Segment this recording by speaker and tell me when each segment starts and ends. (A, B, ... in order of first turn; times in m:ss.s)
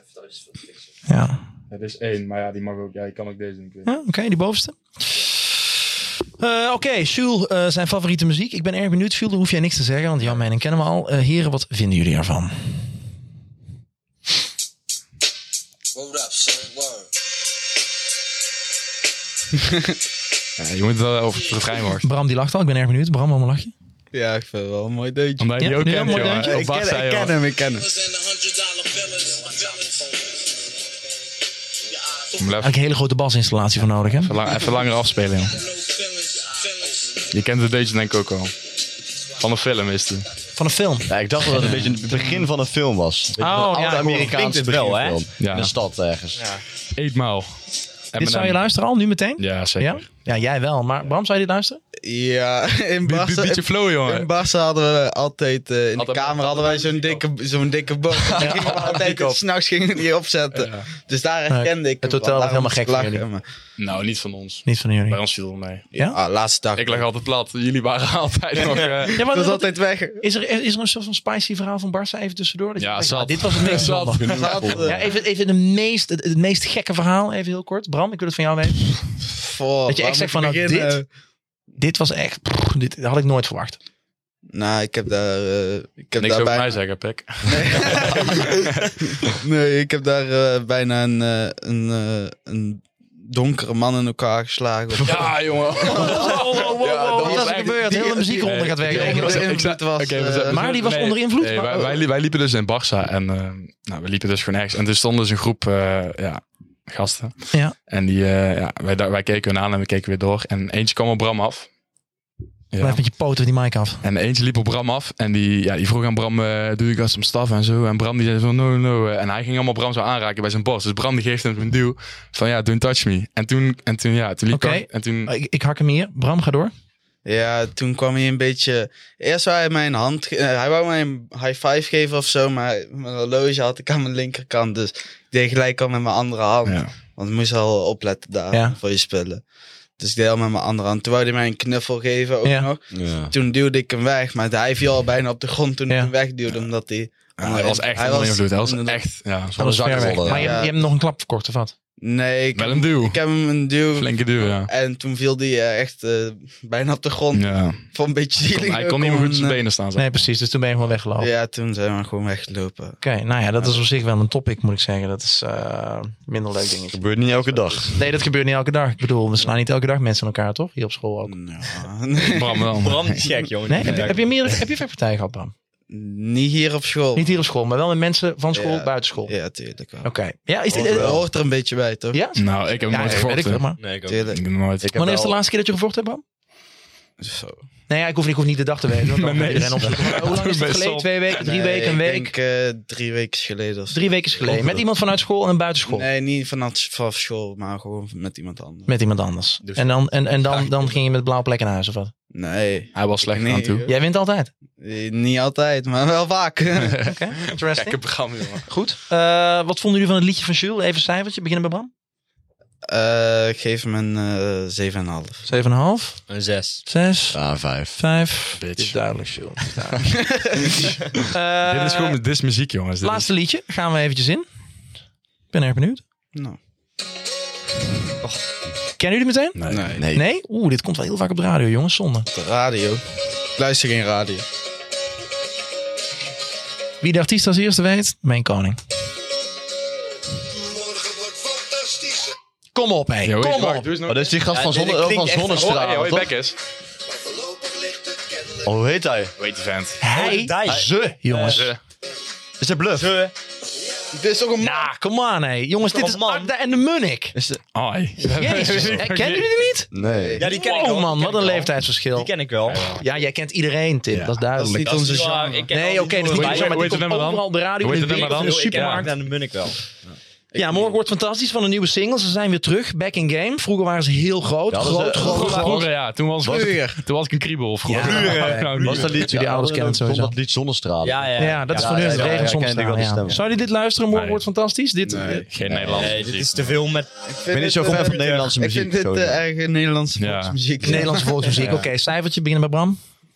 0:01.1-0:01.5 A
0:01.7-0:03.9 B
0:03.8-0:05.9 A
0:06.4-0:12.8 A
0:20.6-0:22.1 B
0:22.0-0:23.7 A
0:24.1-0:28.0 C
0:25.4-0:27.4 B
0:25.6-0:26.6 A
0:32.3-0:32.7 B
0:32.6-0:34.3 A
0:34.2-0:35.6 B
0:37.3-0:38.5 B
0:39.4-0:40.3 B
0:40.5-0:42.3 A
0:41.1-0:46.5 D
0:43.4-0:44.6 A
0:44.3-0:45.2 E
0:45.4-0:45.7 B
0:46.4-0:46.6 E
0:47.0-0:47.6 B
0:48.1-0:48.6 B
0:48.2-0:51.8 A
0:49.4-0:50.0 B
0:52.0-1:03.4 C
0:53.0-0:54.3 B
0:56.0-0:57.2 B
0:58.2-0:59.4 D
0:58.4-0:58.9 A
1:00.5-1:00.9 B
1:01.5-1:03.2 A
1:03.8-1:05.9 B
1:04.6-1:05.2 A
1:05.9-1:06.2 A
1:05.9-1:07.0 C
1:06.7-1:09.3 B
1:08.7-1:10.2 C
1:09.1-1:19.1 A
1:12.8-1:14.9 B
1:13.8-1:15.0 D
1:14.3-1:15.0 C
1:19.4-1:21.0 C
1:19.9-1:21.0 A
1:21.8-1:23.8 A
1:24.5-1:26.8 C
1:26.2-1:29.4 B
1:27.4-1:40.6 C
1:34.9-1:51.7 B
1:35.8-1:39.5 A
1:40.4-1:42.0 A
1:52.7-1:53.0 B
1:52.8-1:54.0 A
1:54.0-2:05.3 B
2:04.5-2:06.7 A
2:07.2-2:19.4 C
2:16.6-2:16.9 B
2:18.5-2:18.8 A
2:20.0-2:29.0 C
2:22.4-2:22.7 A
2:22.9-2:23.3 D
2:27.4-2:29.6 B
2:29.5-2:30.6 D
2:29.6-2:31.7 A
2:30.2-2:30.8 C
2:32.0-2:39.6 C
2:32.5-2:33.2 B
2:34.0-2:34.7 B
2:37.3-2:40.2 B
2:40.0-2:41.3 A
2:41.2-2:43.0 C
2:43.0-2:51.4 A
2:46.9-2:48.0 D
2:51.2-2:52.8 C
2:52.2-2:53.3 B
2:52.8-2:54.5 E
2:53.7-2:55.5 A
2:55.9-2:57.3 C
2:57.1-2:59.3 A
2:58.5-3:00.1 C
3:00.0-3:01.2 A
3:00.7-3:01.2 D
3:00.7-3:02.2 C
3:02.1-3:03.8 A
3:02.4-3:03.7 B
3:03.8-3:04.3 E
3:04.0-3:04.4 C
3:04.3-3:04.9 B
3:04.8-3:05.4 D
3:04.9-3:06.2 A
3:07.2-3:07.6 C
3:07.9-3:12.3 A
3:09.1-3:11.3 B
3:11.4-3:14.1 C
3:13.9-3:16.1 A
3:14.4-3:14.8 D
3:15.9-3:18.9 C
3:18.9-3:22.1 A
3:19.6-3:20.0 E
3:22.3-3:23.9 C
3:22.9-3:23.9 B
3:23.8-3:24.5 A
3:24.8-3:27.1 C
3:27.0-3:28.1 A
3:27.0-3:28.7 B
3:28.6-3:31.9 A
3:32.9-3:35.4 C
3:35.4-3:36.3 A
3:36.3-3:36.8 E
3:36.8-3:40.2 A
3:37.3-3:38.0 D
3:38.6-3:39.0 B
3:40.2-3:40.9 C
3:41.3-3:42.2 A
3:41.6-3:43.3 B
3:43.0-3:44.4 A
3:45.5-3:46.0 A
3:49.0-3:52.3 A
3:49.6-3:50.0 B
3:49.7-3:50.0 C
3:49.9-3:50.2 D
3:52.3-3:53.0 C
3:53.6-3:54.4 C
3:57.0-3:58.8 A
4:02.7-4:03.9 A
4:03.2-4:04.4 B
4:04.1-4:06.3 D
4:04.5-4:05.7 E
4:05.4-4:06.6 B
4:08.6-4:09.3 D
4:09.4-4:10.1 B
4:10.0-4:11.7 A
4:10.1-4:11.6 E
4:11.4-4:11.8 B
4:12.6-4:13.1 D
4:13.0-4:13.3 E
4:14.1-4:14.9 C
4:14.6-4:17.4 A
4:15.8-4:16.5 E
4:17.7-4:19.6 B
4:18.3-4:22.3 A
4:19.9-4:20.4 D
4:20.0-4:20.5 C
4:20.4-4:22.8 E
4:22.6-4:23.0 B
4:22.8-4:25.0 A
4:24.6-4:25.7 C
4:24.8-4:26.8 E
4:25.7-4:29.1 A
4:26.3-4:28.6 B
4:28.1-4:29.8 E
4:30.5-4:30.9 C
4:30.5-4:35.9 A
4:34.7-4:35.9 D
4:35.2-4:39.2 B
4:36.4-4:36.9 D
4:37.8-4:40.3 A
4:38.0-4:39.1 E
4:38.0-4:43.4 D
4:41.0-4:42.5 E
4:41.4-4:45.4 A
4:44.1-4:44.4 B
4:45.0-4:45.5 C
4:45.4-4:46.6 B
4:45.6-4:46.2 D
4:45.9-4:47.1 E
4:47.2-4:51.8 C
4:47.5-4:49.4 D
4:48.0-4:48.5 E
4:50.2-4:50.6 B
4:50.8-4:53.0 A